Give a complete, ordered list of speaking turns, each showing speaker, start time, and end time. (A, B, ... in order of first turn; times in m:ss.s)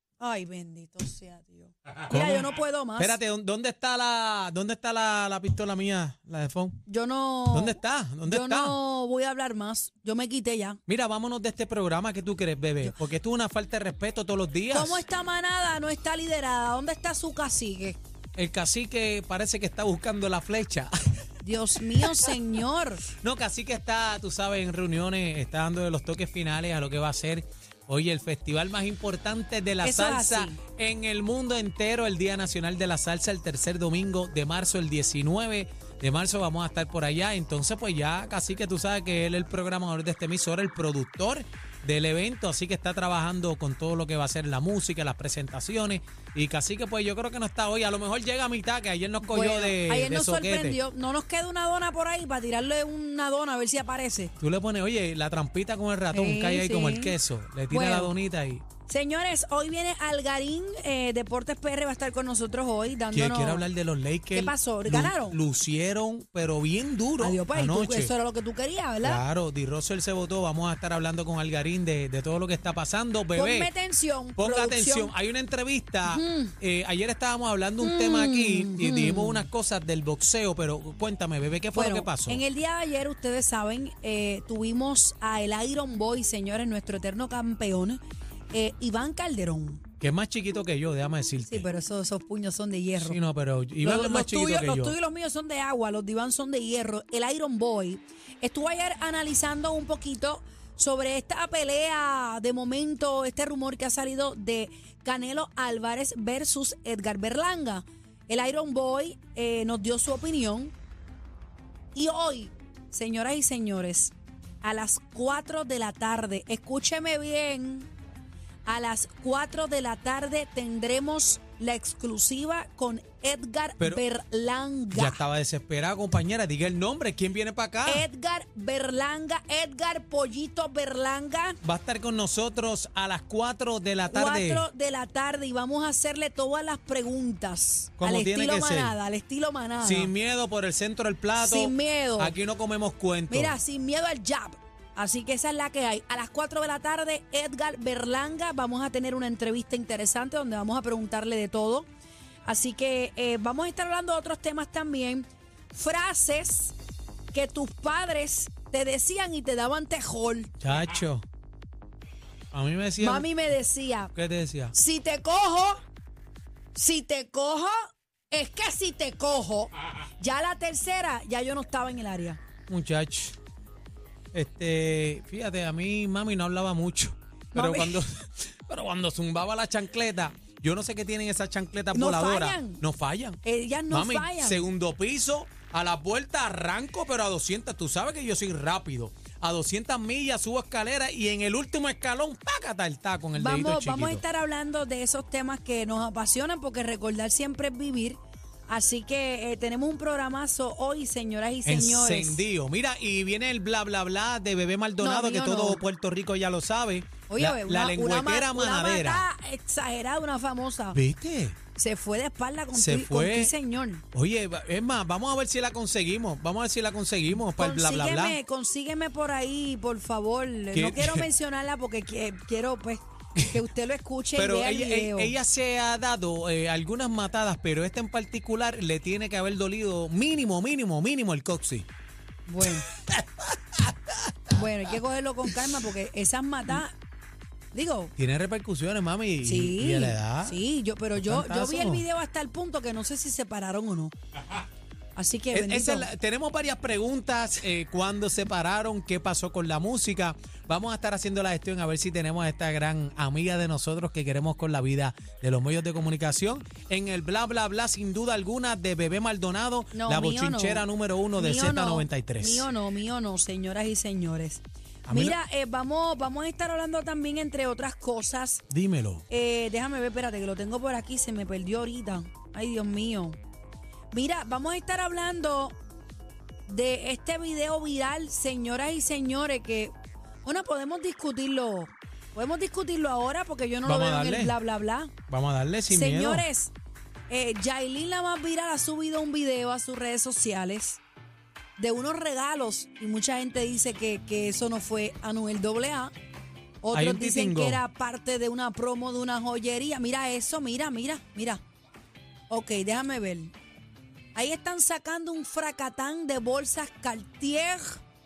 0:00.2-0:03.2 A
0:02.1-0:06.8 B
0:06.9-0:10.8 A
0:07.5-0:08.8 B
0:10.9-0:15.0 B
0:14.7-0:18.0 A
0:18.4-0:21.2 B
0:21.4-0:23.0 A
0:22.0-0:22.4 B
0:23.1-0:50.8 B
0:29.8-0:30.6 A
0:49.2-0:54.3 A
0:54.4-0:58.6 B
0:56.1-0:57.2 A
0:57.7-0:58.1 A
0:58.9-1:03.7 A
1:03.1-1:08.1 B
1:04.3-1:05.4 A
1:07.2-1:09.2 A
1:09.0-1:13.7 B
1:13.4-1:15.1 A
1:14.4-1:22.4 B
1:16.1-1:16.5 A
1:17.8-1:19.5 A
1:21.7-1:28.0 A
1:28.5-1:29.8 A
1:30.0-1:31.7 B
1:31.4-1:33.2 A
1:33.0-1:35.0 B
1:33.8-1:50.7 A
1:51.9-1:57.9 A
1:58.7-2:05.2 A
2:04.9-2:08.1 B
2:07.9-2:11.6 A
2:11.6-2:14.7 B
2:14.1-2:20.1 A
2:18.0-2:19.0 B
2:19.8-2:23.6 B
2:21.4-2:22.4 A
2:23.3-2:31.9 A
2:32.5-2:36.8 A
2:37.3-2:40.5 A
2:40.6-2:41.2 B
2:42.5-2:43.3 B
2:43.0-2:44.1 A
2:44.1-2:44.8 B
2:44.7-2:45.8 A
2:46.8-2:47.7 A
2:48.3-2:52.4 A
2:52.7-2:53.4 B
2:54.3-3:14.2 B
2:57.5-2:58.0 A
3:01.9-3:02.8 A
3:03.4-3:04.6 A
3:13.4-3:22.4 A
3:21.6-3:29.3 B
3:25.0-3:25.8 A
3:27.3-3:31.0 A
3:30.9-3:31.6 B
3:31.8-3:34.0 A
3:32.7-3:33.5 B
3:34.1-3:38.4 B
3:37.5-3:45.4 A
3:40.7-3:41.3 B
3:43.4-3:43.6 B
3:44.4-3:51.9 B
3:52.5-3:52.9 A
3:52.6-3:54.6 B
3:54.5-3:56.9 A
3:57.7-3:58.1 A
3:58.2-4:00.6 B
3:59.4-4:04.1 A
4:01.2-4:02.0 B
4:05.2-4:06.1 A
4:05.5-4:22.7 B
4:19.9-4:20.8 A
4:21.4-4:28.6 A
4:25.1-4:25.4 B
4:28.7-4:29.2 B
4:29.3-4:33.4 A
4:34.1-4:35.8 A
4:36.7-4:39.9 A
4:40.4-4:45.1 A
4:43.8-4:44.6 B
4:45.3-4:46.5 B
4:45.9-4:46.7 A
4:47.3-4:51.0 A
4:51.8-4:56.1 A
4:56.8-5:01.6 A
4:56.9-4:57.8 B
5:02.5-5:03.5 A
5:04.4-5:08.0 A